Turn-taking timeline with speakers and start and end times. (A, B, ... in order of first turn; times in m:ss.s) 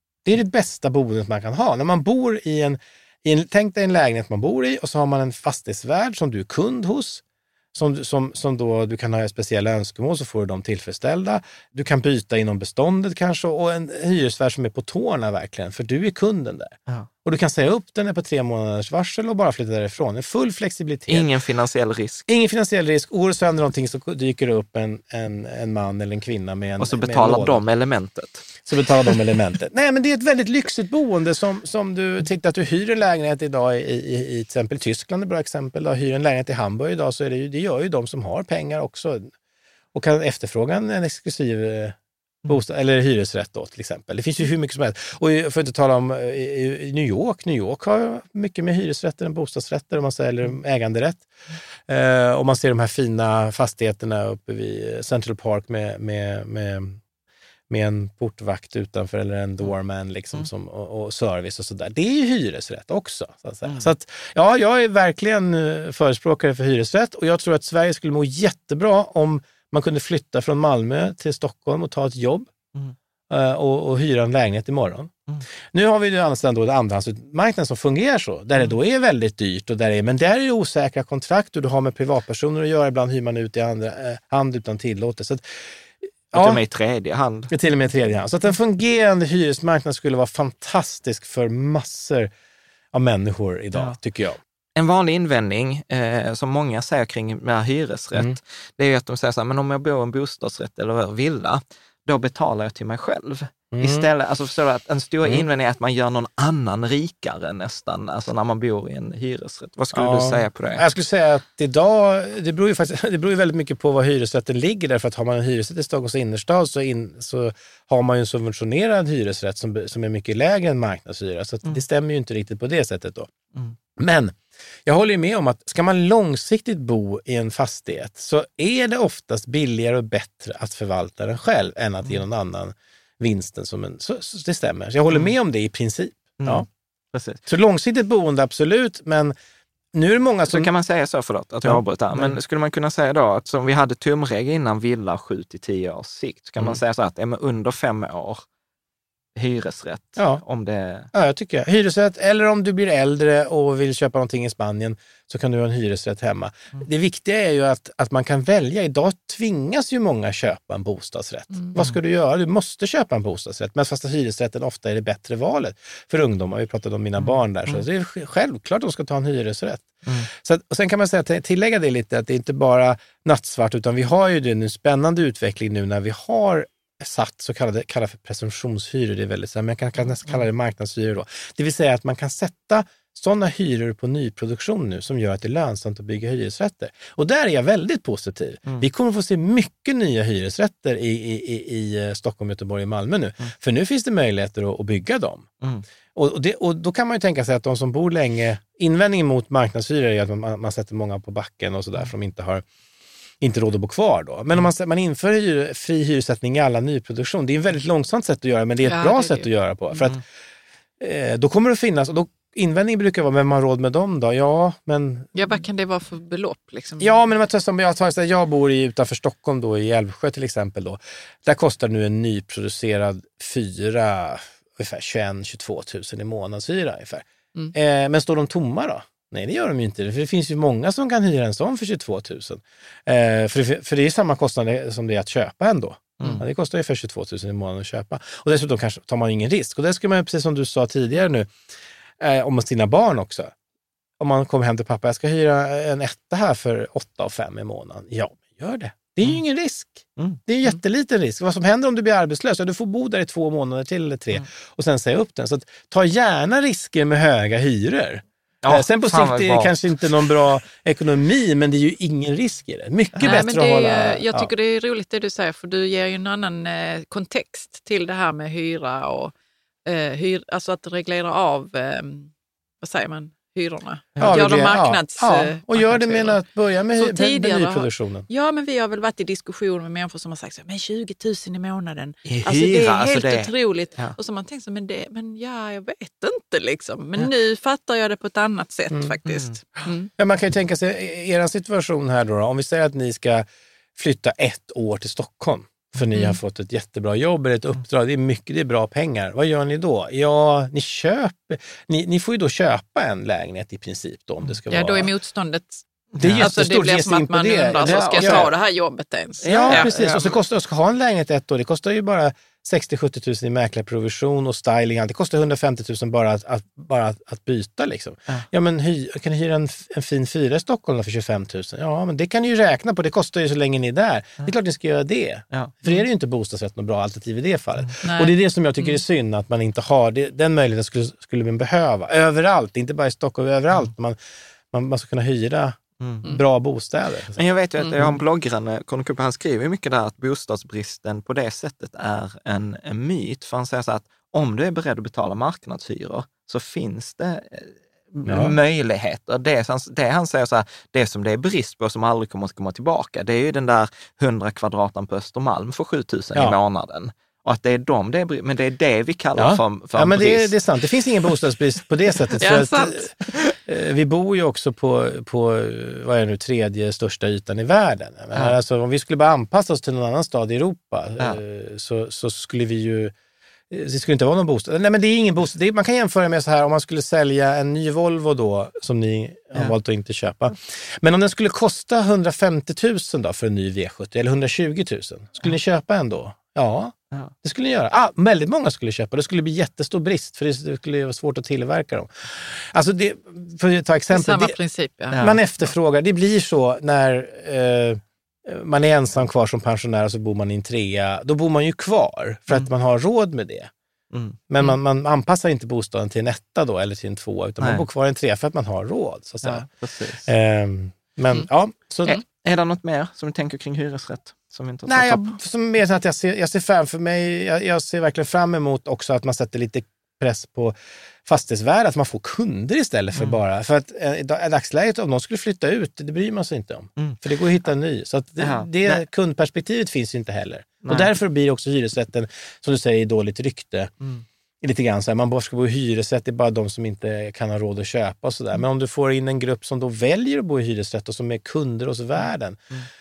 0:00.3-0:07.2 A
0:07.7-0:21.3 A
0:21.1-0:22.3 B
0:22.3-0:27.6 A
0:26.8-0:28.5 B
0:28.6-0:39.3 A
0:39.9-0:42.0 A
0:42.5-0:51.3 A
0:51.9-0:57.0 A
0:57.7-1:12.5 A
1:03.6-1:03.9 B
1:13.3-1:15.1 A
1:15.7-1:25.7 A
1:26.3-1:26.6 A
1:26.3-1:27.5 B
1:27.5-1:32.3 A
1:32.9-1:34.4 A
1:34.8-1:50.9 B
1:43.7-1:44.1 A
1:49.9-2:03.3 A
2:04.0-2:16.7 A
2:16.4-2:17.4 B
2:17.5-2:19.4 A
2:19.9-2:20.7 A
2:20.5-2:28.4 B
2:21.6-2:22.4 A
2:29.4-2:31.1 B
2:30.2-2:30.4 A
2:31.1-3:15.5 A
3:16.2-3:22.6 A
3:23.4-3:30.2 A
3:28.8-3:29.5 C
3:31.0-3:35.3 A
3:35.4-3:37.2 C
3:37.0-4:01.5 A
4:02.2-4:03.5 A
4:04.2-4:24.5 A
4:18.6-4:19.8 B
4:23.2-4:29.3 C
4:29.9-4:32.3 C
4:32.8-4:36.4 C
4:34.2-4:34.4 B
4:34.2-4:38.3 A
4:37.0-4:50.1 C
4:42.3-4:44.2 B
4:49.3-4:49.6 B
4:50.2-5:05.1 A
5:04.7-5:05.8 C
5:06.1-5:06.5 B
5:06.2-5:08.5 A
5:06.4-5:09.9 C
5:07.8-5:08.5 B
5:09.4-5:10.4 B
5:09.5-5:34.2 A
5:28.0-5:29.0 C
5:34.7-5:37.4 A
5:36.0-5:36.3 B
5:37.4-6:00.6 B
5:48.3-5:48.6 A
5:59.4-6:13.1 A
6:02.4-6:03.1 C
6:13.7-6:34.6 A
6:34.1-6:35.2 C
6:35.1-6:35.4 B
6:35.2-6:43.7 A
6:44.1-6:44.4 B
6:44.5-6:49.7 A
6:47.6-6:47.9 B
6:49.4-6:50.3 B
6:50.3-6:52.2 A
6:52.4-6:55.4 B
6:54.9-7:13.9 A
7:08.4-7:09.0 B
7:10.8-7:11.1 B
7:14.6-7:22.6 A